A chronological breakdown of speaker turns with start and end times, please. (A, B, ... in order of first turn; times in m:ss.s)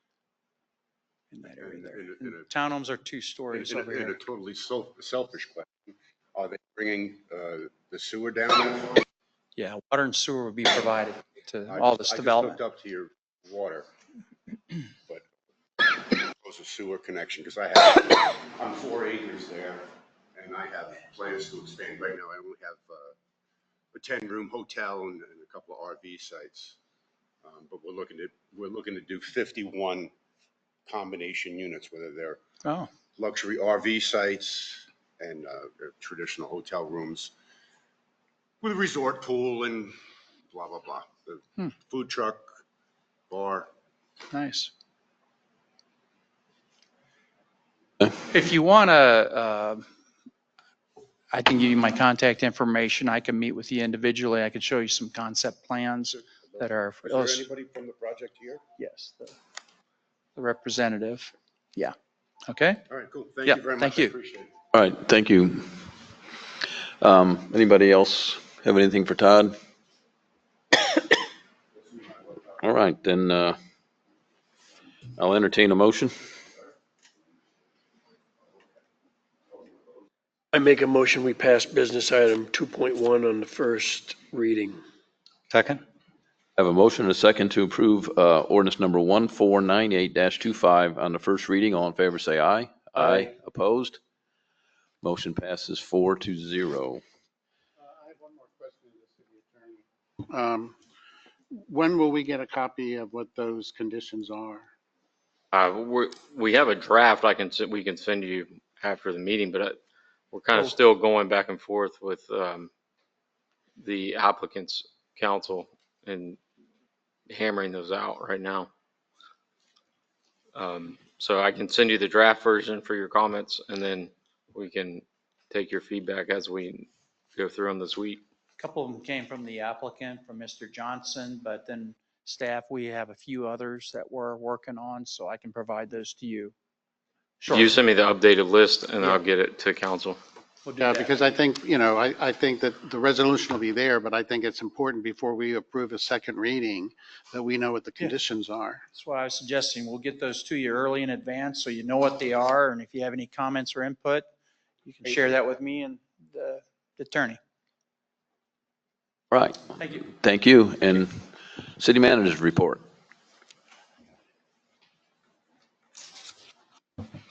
0:01.3-0:04.2 A
0:01.5-0:02.5 B
0:03.5-0:09.0 B
0:09.6-0:12.6 A
0:11.7-0:13.9 B
0:16.2-0:23.1 B
0:23.9-0:26.8 B
0:27.4-0:30.1 B
0:30.8-0:32.4 B
0:32.6-0:32.9 A
0:33.2-0:37.3 B
0:38.6-0:40.0 B
0:40.5-0:42.6 B
0:43.3-0:43.7 B
0:44.3-0:44.7 A
0:48.2-0:49.8 A
0:51.3-0:57.4 A
0:56.4-0:58.6 B
0:58.8-0:59.4 A
1:00.3-1:01.9 A
1:02.5-1:02.8 A
1:02.9-1:04.5 B
1:03.4-1:04.1 A
1:04.7-1:05.8 C
1:07.0-1:09.5 C
1:12.6-1:13.6 C
1:15.2-1:16.2 C
1:20.5-1:24.8 D
1:26.6-1:34.0 C
1:35.0-1:37.0 C
1:37.8-1:40.8 E
1:41.5-1:44.7 E
1:45.5-1:49.8 F
1:50.3-1:52.7 F
1:53.8-1:56.4 F
1:57.3-1:58.7 F
2:00.5-2:08.2 F
2:08.6-2:16.5 A
2:17.4-2:17.8 A
2:17.5-2:20.2 F
2:20.6-2:21.2 A
2:20.8-2:28.8 E
2:28.9-2:34.3 A
2:34.8-2:37.4 A
2:39.3-2:41.2 C
2:39.8-2:40.0 A
2:41.8-2:42.8 C